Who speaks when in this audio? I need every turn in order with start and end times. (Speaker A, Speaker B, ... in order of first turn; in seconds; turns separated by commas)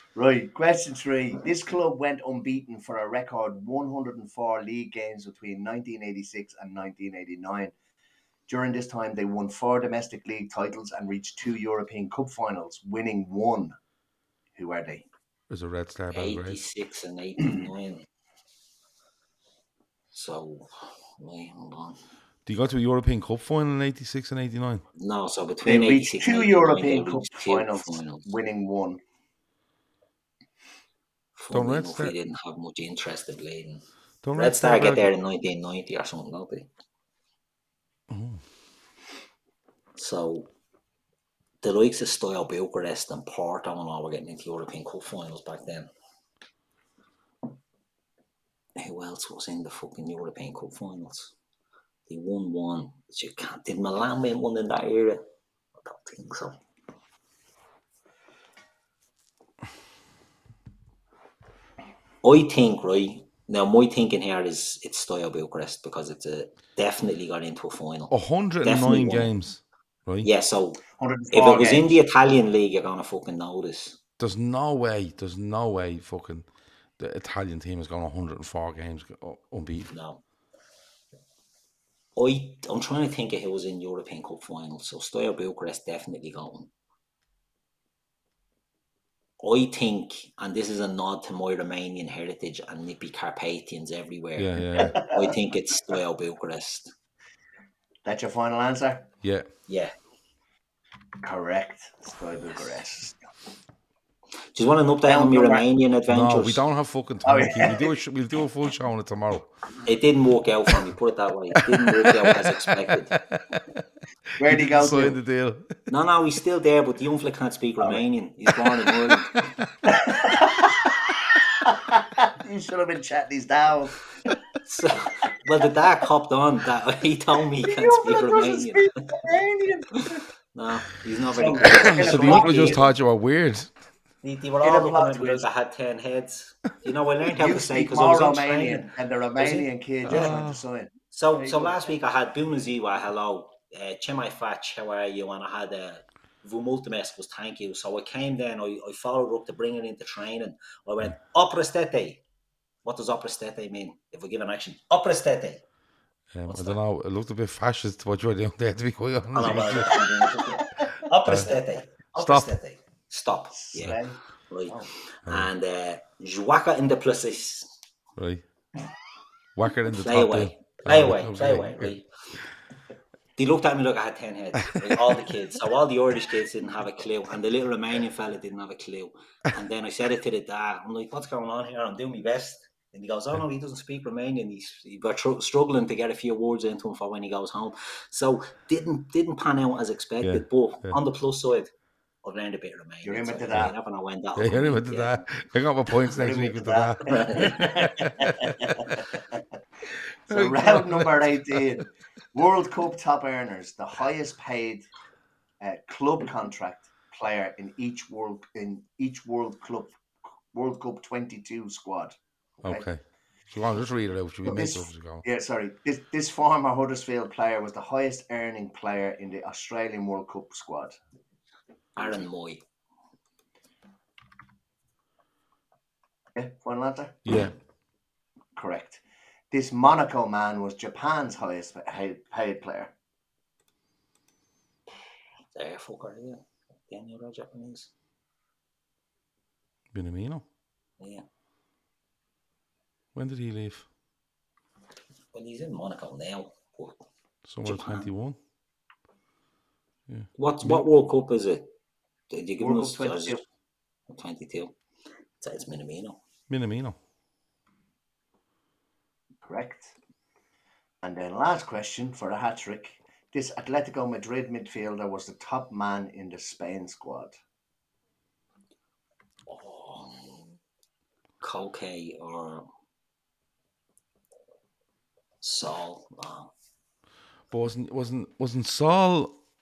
Speaker A: 0.1-7.7, Speaker A: 8.5-13.7, Speaker A: 14.6-15.1, Speaker B: 15.5-16.6, Speaker C: 16.1-18.1, Speaker C: 20.1-22.0, Speaker B: 22.4-24.8, Speaker C: 25.0-28.2, Speaker A: 25.6-29.0, Speaker C: 31.4-33.8, Speaker B: 31.5-32.1, Speaker B: 34.2-35.1, Speaker C: 34.3-36.7, Speaker B: 38.1-38.4, Speaker C: 40.0-40.5, Speaker C: 41.6-45.9, Speaker C: 48.8-51.3, Speaker C: 52.1-55.2, Speaker C: 55.8-56.6, Speaker C: 62.2-69.3, Speaker B: 68.1-70.3, Speaker C: 70.2-74.0, Speaker A: 71.0-71.9, Speaker B: 74.2-76.5, Speaker B: 77.0-79.9, Speaker C: 79.9-80.2, Speaker C: 82.2-86.7, Speaker C: 89.4-96.9, Speaker B: 94.4-95.0, Speaker A: 94.8-95.3, Speaker A: 98.0-99.1, Speaker B: 99.2-99.5, Speaker A: 101.2-103.2, Speaker C: 104.5-106.6, Speaker A: 105.0-105.6, Speaker B: 106.1-109.5, Speaker A: 107.2-108.0, Speaker C: 109.8-113.2, Speaker B: 111.5-113.8, Speaker A: 114.4-115.2, Speaker B: 114.4-115.9, Speaker C: 115.9-119.4, Speaker B: 119.0-119.7, Speaker A: 119.9-121.0, Speaker A: 121.6-124.3, Speaker C: 124.6-128.9, Speaker A: 127.6-130.2, Speaker C: 130.5-132.8, Speaker A: 131.3-132.8, Speaker B: 131.8-133.7, Speaker C: 134.2-140.4, Speaker A: 134.6-135.5, Speaker A: 137.4-141.9, Speaker B: 140.1-140.6, Speaker C: 141.1-152.2, Speaker C: 152.8-155.6, Speaker B: 156.3-160.0, Speaker C: 156.5-156.8, Speaker C: 159.3-167.7, Speaker B: 161.2-161.5, Speaker B: 162.1-162.6, Speaker A: 163.5-164.2, Speaker B: 168.2-168.4, Speaker B: 169.6-171.9, Speaker C: 169.9-172.1, Speaker C: 173.4-191.7, Speaker B: 190.2-191.0, Speaker C: 192.2-195.2, Speaker A: 193.0-193.7, Speaker B: 194.4-199.0, Speaker A: 196.1-199.4, Speaker C: 197.0-197.8, Speaker B: 200.3-201.8, Speaker A: 200.3-204.9, Speaker A: 205.6-210.0, Speaker A: 210.5-212.8, Speaker B: 212.6-215.2, Speaker A: 214.4-221.0, Speaker C: 221.9-222.6, Speaker A: 226.3-227.2, Speaker B: 227.2-227.5, Speaker A: 228.6-232.9, Speaker C: 235.5-237.9, Speaker B: 239.9-240.4, Speaker C: 241.0-241.2, Speaker B: 243.1-243.9, Speaker C: 245.3-247.0, Speaker B: 247.4-248.4, Speaker C: 247.6-248.1, Speaker B: 250.1-250.8, Speaker C: 250.4-251.7, Speaker C: 252.3-253.4, Speaker A: 252.6-253.4, Speaker C: 254.1-254.8, Speaker C: 255.4-256.2, Speaker B: 256.5-257.0, Speaker A: 259.4-259.9, Speaker A: 261.0-267.4, Speaker C: 269.5-270.4, Speaker C: 271.4-272.7, Speaker C: 275.4-276.5, Speaker B: 277.5-279.4